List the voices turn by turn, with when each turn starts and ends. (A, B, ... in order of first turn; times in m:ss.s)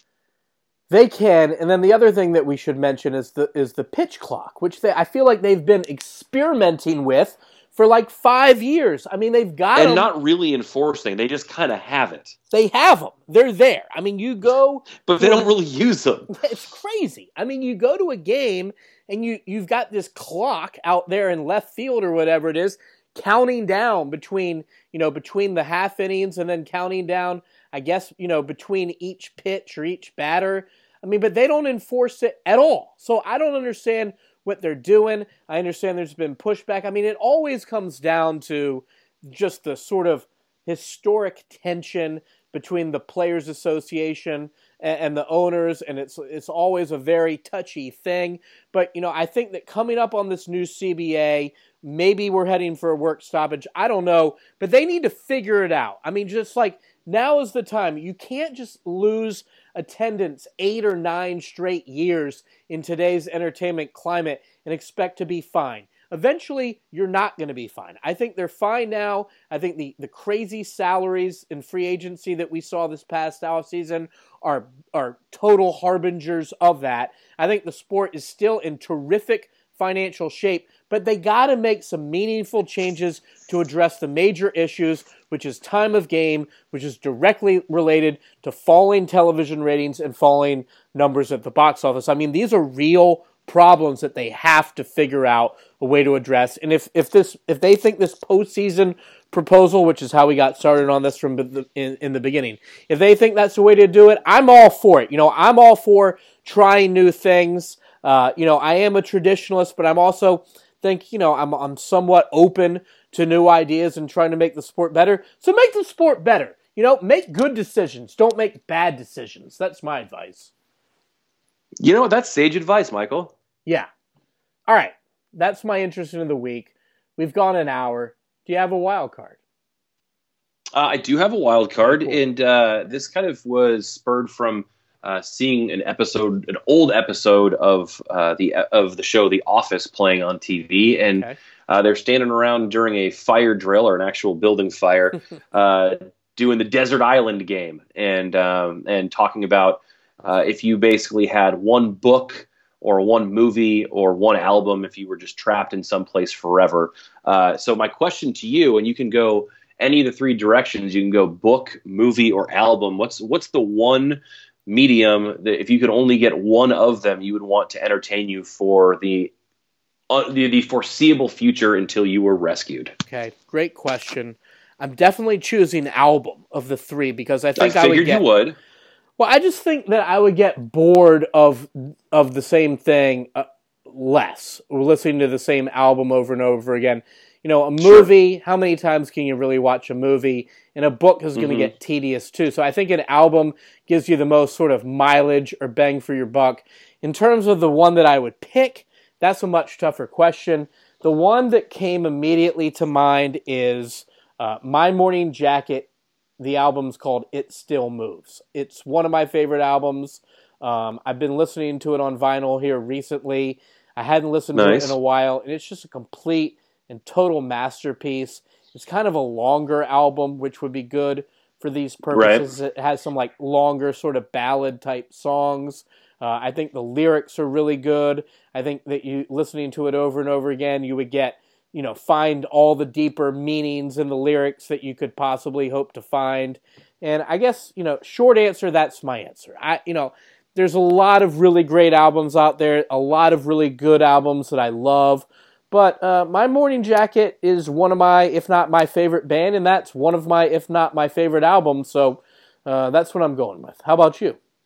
0:00.9-0:10.1 A
0:09.8-0:12.3 B
0:12.5-0:15.5 A
0:15.0-0:16.3 B
0:16.3-2:00.5 A
2:01.8-2:03.3 B
2:04.7-2:09.4 A
2:10.7-2:49.3 B
2:11.8-2:12.2 A
2:50.1-2:52.9 B
2:53.1-2:58.2 A
2:57.6-2:58.6 B
2:59.2-4:14.4 A
3:07.8-3:08.1 B
3:11.4-3:11.7 B
3:34.5-3:34.9 B
3:42.1-3:42.5 B